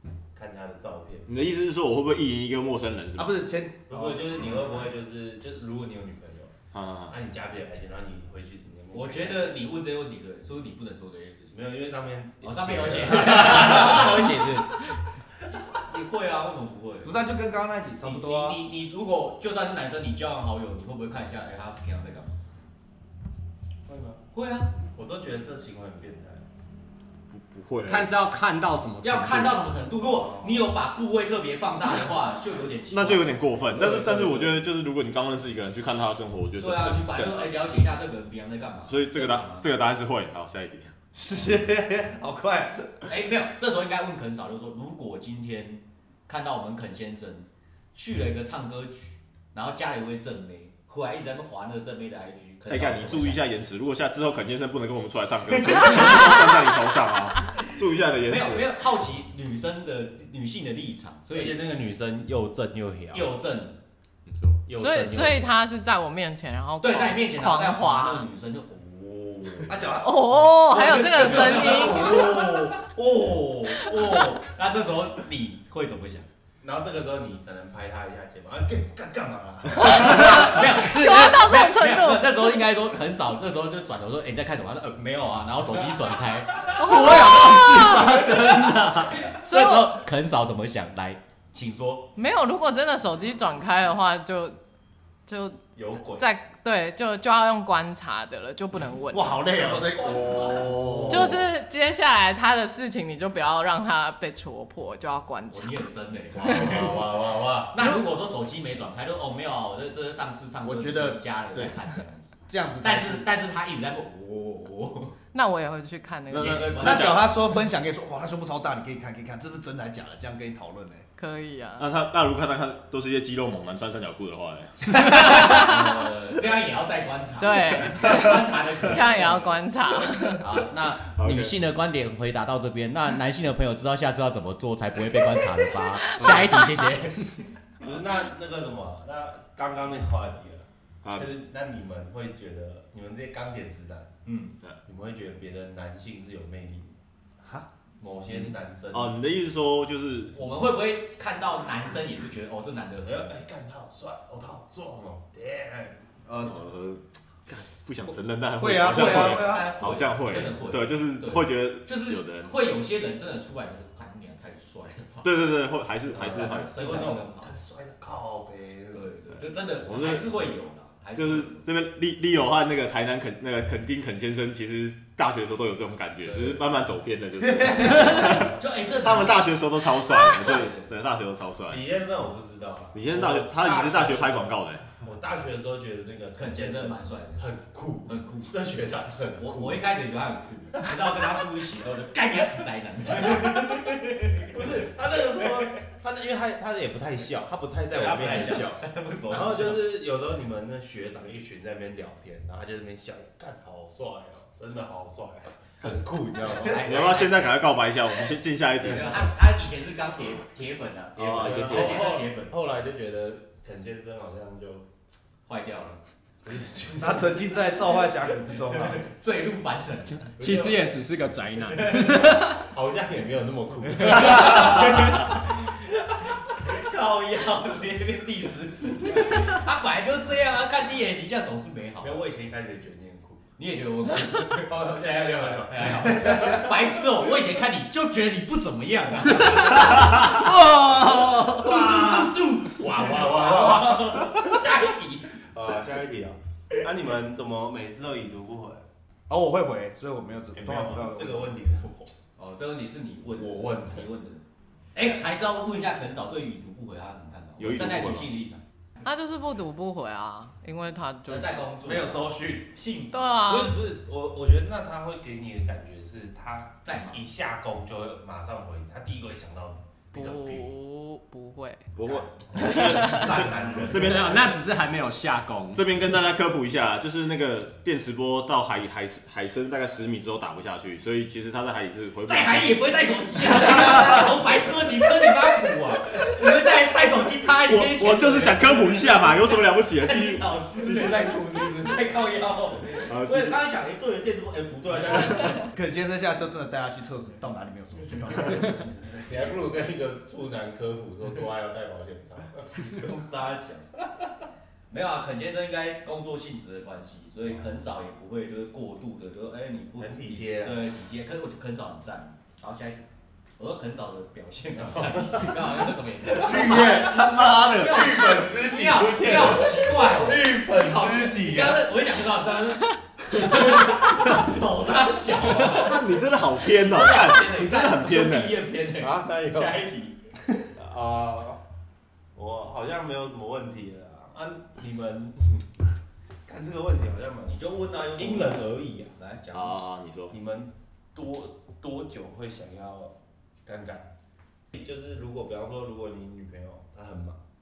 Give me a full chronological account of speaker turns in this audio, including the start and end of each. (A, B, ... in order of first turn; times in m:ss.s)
0:00.3-0:01.3 A
0:01.3-0:03.4 B
0:03.2-0:04.4 C
0:03.9-0:06.5 A
0:06.7-0:07.2 B
0:07.1-0:09.6 A
0:08.9-0:11.6 D
0:11.5-0:14.5 A
0:12.4-0:14.8 D
0:15.7-0:17.2 D
0:17.0-0:18.6 C
0:18.0-0:22.4 D
0:23.9-0:24.2 A
0:24.3-0:24.8 D
0:24.9-0:26.5 A
0:27.3-0:28.2 B
0:27.9-0:29.7 E
0:29.0-0:34.6 D
0:30.0-0:30.7 A
0:32.9-0:37.6 B
0:36.6-0:39.7 D
0:38.9-0:40.9 B
0:41.2-0:43.0 C
0:43.0-0:53.4 D
0:52.7-0:58.7 B
0:55.5-0:56.6 D
0:58.2-1:01.6 D
1:01.3-1:03.3 A
1:03.1-1:03.8 D
1:04.3-1:04.6 E
1:04.7-1:05.5 A
1:04.8-1:08.3 F
1:06.8-1:09.9 D
1:09.6-1:10.3 C
1:10.0-1:12.5 F
1:10.7-1:16.3 D
1:11.2-1:12.2 A
1:13.8-1:14.1 F
1:16.6-1:20.3 A
1:19.8-1:32.1 D
1:19.8-1:22.4 F
1:26.7-1:30.0 F
1:26.8-1:29.2 E
1:32.2-1:34.6 F
1:35.3-1:39.4 F
1:35.8-1:36.3 A
1:39.1-1:41.3 C
1:39.5-1:41.3 A
1:40.3-1:41.3 B
1:41.1-1:45.9 F
1:45.5-1:47.1 D
1:46.3-1:47.8 A
1:46.4-1:46.8 F
1:47.7-1:55.2 D
1:50.6-1:51.8 C
1:52.5-1:53.3 C
1:55.3-1:57.0 F
1:56.3-1:57.2 B
1:56.3-1:57.2 D
1:56.8-2:01.0 C
2:01.2-2:01.9 F
2:01.8-2:05.4 B
2:05.0-2:09.5 D
2:05.1-2:05.9 F
2:07.4-2:10.4 F
2:10.4-2:17.4 D
2:11.1-2:11.6 B
2:17.8-2:24.1 A
2:21.0-2:21.3 B
2:24.2-2:24.6 D
2:24.9-2:26.9 A
2:27.4-2:27.7 C
2:28.0-2:29.2 A
2:28.3-2:30.4 B
2:30.3-2:33.3 D
2:33.0-2:36.1 A
2:36.3-2:36.6 C
2:36.4-2:42.5 B
2:38.6-2:40.0 C
2:38.8-2:45.4 D
2:40.2-2:40.6 A
2:45.2-2:47.0 B
2:46.1-2:47.5 D
2:46.2-2:49.1 A
2:48.9-2:51.6 D
2:49.8-2:50.2 B
2:51.2-3:01.8 B
2:57.8-3:00.9 D
3:01.7-3:09.8 A
3:02.9-3:04.9 B
3:06.4-3:07.4 D
3:08.1-3:08.5 D
3:09.4-3:14.8 D
3:14.3-3:26.9 A
3:17.9-3:19.8 D
3:26.5-3:27.6 D
3:26.8-3:29.3 B
3:28.8-3:32.6 D
3:31.2-3:32.1 B
3:31.3-3:34.9 A
3:35.5-3:36.0 D
3:36.4-3:37.6 A
3:37.0-3:39.0 C
3:38.7-3:40.3 D
3:40.4-3:41.0 A
3:40.4-3:42.6 E
3:41.8-3:42.4 D
3:42.4-3:45.2 A
3:44.0-3:45.8 D
3:46.5-3:52.3 D
3:52.0-3:53.4 A
3:53.6-4:00.4 D
3:54.7-3:56.6 A
3:59.8-4:01.8 E
4:01.4-4:05.4 D
4:01.6-4:04.4 A
4:05.5-4:08.9 A
4:09.3-4:11.6 C
4:10.5-4:12.1 A
4:12.4-4:14.4 D
4:13.4-4:14.1 A
4:15.0-4:18.6 D
4:17.6-4:18.3 B
4:19.0-4:21.6 F
4:21.3-4:23.5 D
4:21.8-4:22.7 C
4:23.1-4:23.8 F
4:23.5-4:30.7 A
4:26.8-4:27.2 D
4:30.1-4:31.9 F
4:32.0-4:34.6 B
4:32.0-4:33.6 D
4:32.5-4:34.4 A
4:32.6-4:33.4 F
4:34.0-4:35.9 E
4:35.7-4:42.8 B
4:42.3-4:55.7 D
4:43.6-4:46.3 A
4:47.7-4:51.2 B
4:50.8-4:52.1 A
4:53.1-4:53.6 B
4:55.4-4:59.0 C
4:59.1-5:02.9 A
5:02.8-5:03.9 D
5:04.9-5:13.0 D
5:10.0-5:10.8 A
5:13.6-5:30.2 D
5:14.8-5:15.5 A
5:16.4-5:17.3 C
5:16.5-5:18.3 B
5:17.7-5:21.9 A
5:23.4-5:24.4 A
5:25.6-5:28.6 B
5:29.0-5:29.8 A
5:30.6-5:31.6 A
5:32.4-5:35.7 A
5:36.5-5:37.6 A
5:37.5-5:39.8 D
5:38.2-5:39.2 A
5:39.5-5:40.4 B
5:40.3-5:44.1 A
5:44.7-5:47.4 A